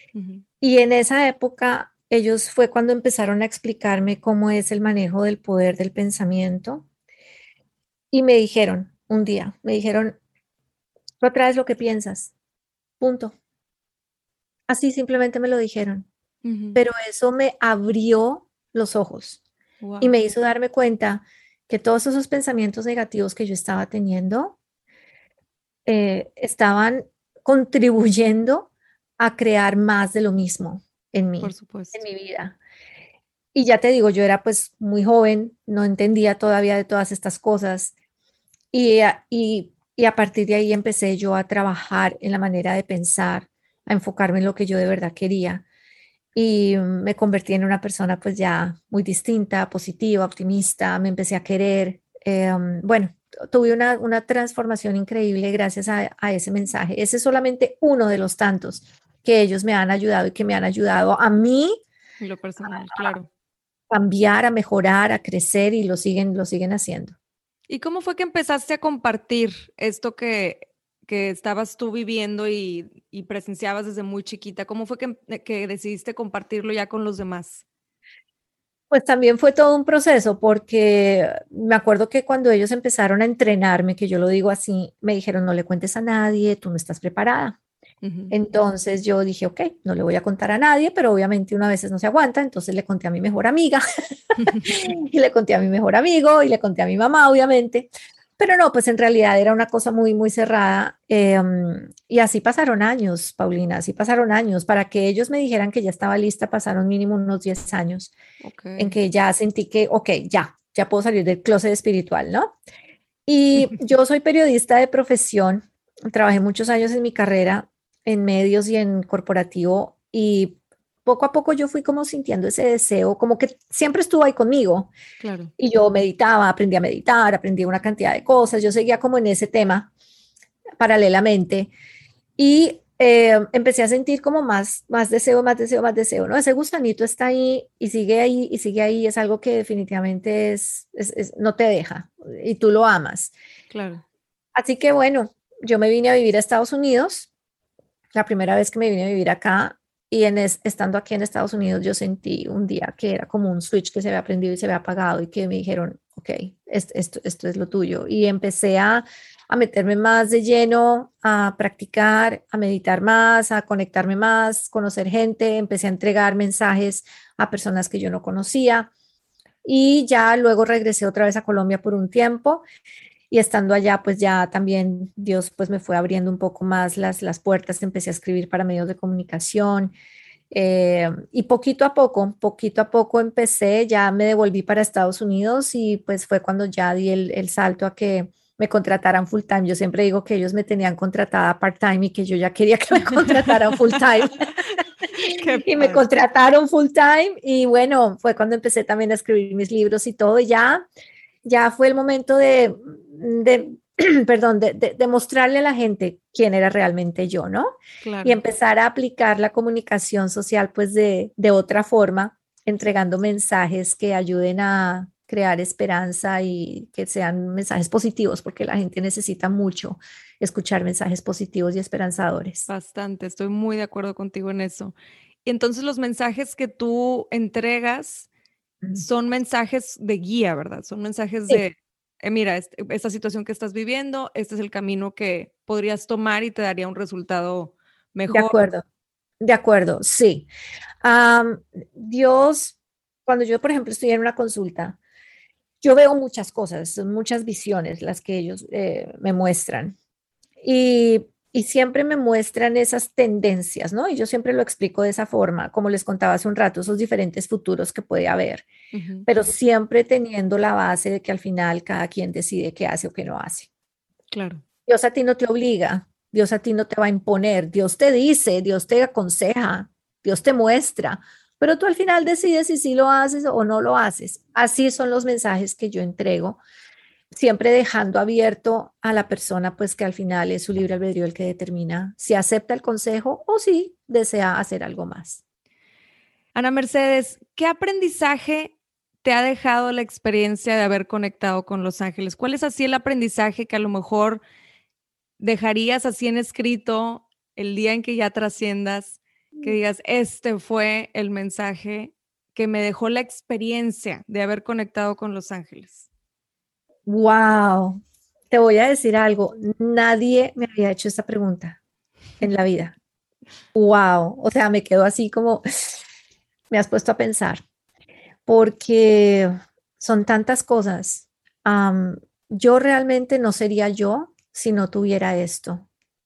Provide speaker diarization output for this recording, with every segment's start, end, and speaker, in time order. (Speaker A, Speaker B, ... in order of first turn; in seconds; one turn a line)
Speaker A: 0.1-0.4
Speaker B: 0.6-6.9
Speaker B: 8.1-10.2
Speaker B: 11.2-12.3
Speaker B: 13.0-13.3
Speaker B: 14.7-16.1
Speaker A: 16.4-16.8
Speaker B: 16.7-19.4
Speaker A: 19.8-20.1
Speaker B: 20.0-24.6
Speaker B: 25.9-32.5
Speaker A: 31.4-32.0
Speaker B: 33.5-37.9
Speaker B: 38.7-45.6
Speaker B: 46.3-61.8
Speaker A: 62.2-63.3
Speaker B: 63.9-67.1
Speaker A: 67.7-77.6
Speaker B: 78.9-87.6
Speaker A: 88.0-88.3
Speaker B: 88.3-93.8
Speaker A: 94.4-94.7
Speaker B: 94.6-108.1
Speaker A: 108.4-109.0
Speaker B: 108.8-112.5
Speaker B: 113.3-124.9
Speaker A: 125.2-125.5
Speaker B: 125.6-129.9
Speaker B: 130.8-131.7
Speaker B: 132.4-143.3
Speaker A: 143.7-144.0
Speaker B: 144.6-147.3
Speaker B: 148.1-168.9
Speaker B: 169.6-172.7
Speaker B: 173.3-179.9
Speaker B: 180.5-194.5
Speaker A: 193.3-193.6
Speaker A: 195.2-196.0
Speaker B: 195.6-200.9
Speaker B: 201.4-207.7
Speaker A: 208.0-208.4
Speaker B: 208.2-222.7
Speaker A: 222.7-228.3
Speaker A: 228.9-238.6
Speaker B: 238.3-238.8
Speaker B: 239.4-240.5
Speaker B: 241.0-245.0
Speaker B: 245.8-249.9
Speaker B: 250.6-258.6
Speaker A: 258.9-259.3
Speaker B: 259.3-263.7
Speaker A: 264.3-264.6
Speaker B: 264.9-276.6
Speaker B: 277.3-285.4
Speaker A: 286.6-294.4
Speaker A: 295.4-306.1
Speaker B: 307.1-311.8
Speaker B: 312.4-312.9
Speaker B: 313.7-315.6
Speaker B: 316.7-317.6
Speaker B: 318.4-325.9